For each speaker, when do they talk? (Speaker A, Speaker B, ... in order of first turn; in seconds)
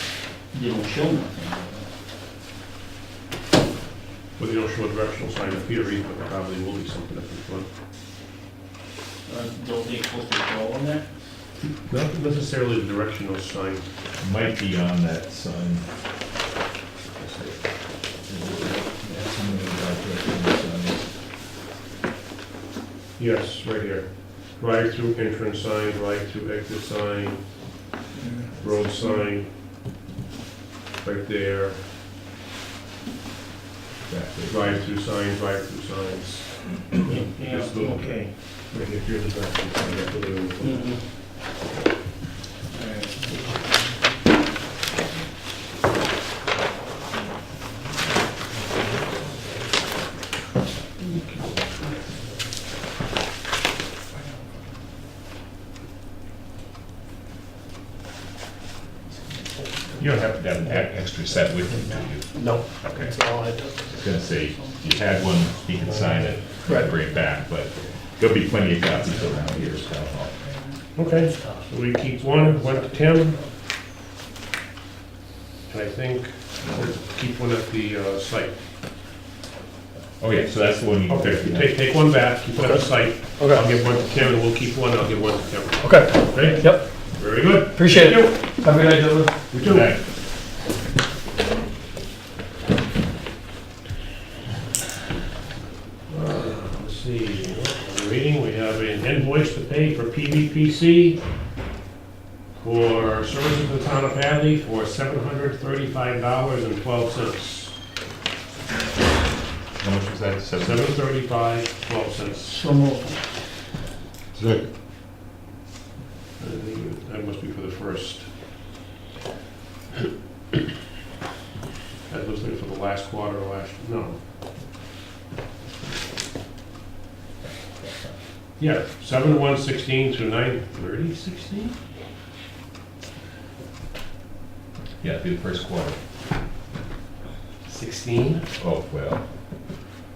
Speaker A: 0.5-1.9, 9.3-11.1, 28.2-29.2, 37.0-38.3, 40.6-41.0, 42.7-43.4, 66.6-66.9, 112.4-113.2
Speaker B: 4.4-7.7, 11.9-13.9, 23.2-27.4, 28.6-29.5, 31.0-31.8, 34.5-40.9, 51.1-51.5, 62.4-63.5, 65.9-66.5, 71.0-73.4, 75.7-78.6, 81.1-88.4, 89.5-90.0, 96.1-101.2, 102.5-107.8, 110.6-112.6, 114.3-114.7, 116.4-118.3, 122.1-124.2, 128.6-131.8, 137.7-138.4
Speaker C: 14.2-15.8, 17.2-17.6, 18.2-21.1, 34.1-34.8, 60.0-63.1, 63.9-70.3, 80.2-81.7, 89.6-90.0, 109.8-110.8, 135.0-136.0, 138.6-139.2
Speaker D: 82.6-82.8, 83.4-83.7, 85.8-86.9, 87.7-89.5